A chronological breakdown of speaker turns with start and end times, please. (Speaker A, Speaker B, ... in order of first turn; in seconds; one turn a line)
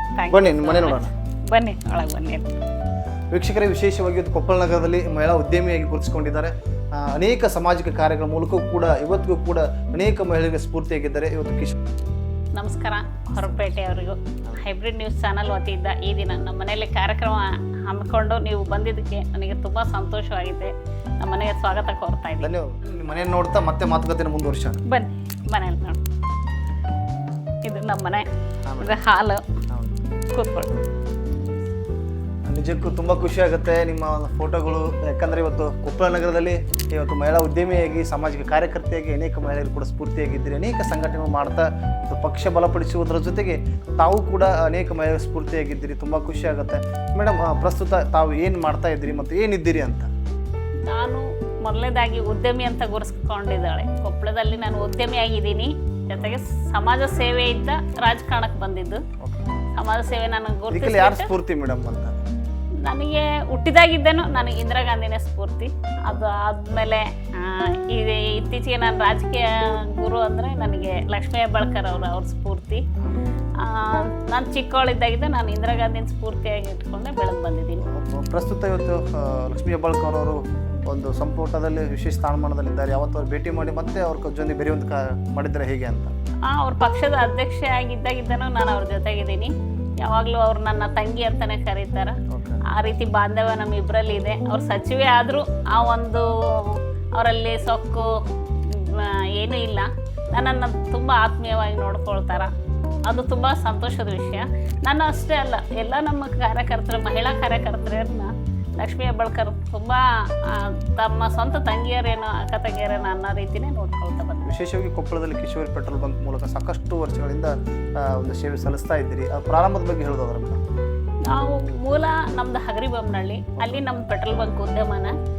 Speaker A: 0.2-2.5
Speaker B: 0.3-1.1
Speaker B: 3.3-11.7
Speaker A: 12.6-22.5
Speaker B: 13.4-13.7
Speaker B: 22.4-24.8
Speaker A: 24.9-26.0
Speaker A: 27.6-28.2
Speaker B: 28.6-29.0
Speaker A: 28.8-29.4
Speaker B: 29.7-30.0
Speaker A: 30.3-30.7
Speaker B: 32.5-50.1
Speaker A: 50.9-59.0
Speaker B: 56.1-56.4
Speaker B: 59.2-59.5
Speaker A: 59.8-61.3
Speaker B: 60.7-62.2
Speaker A: 62.8-72.8
Speaker A: 73.6-77.8
Speaker B: 77.8-86.1
Speaker A: 86.5-92.2
Speaker B: 92.3-92.6
Speaker A: 92.7-102.5
Speaker A: 103.1-114.4
Speaker B: 114.4-120.6
Speaker A: 121.2-125.1
Speaker B: 123.6-123.8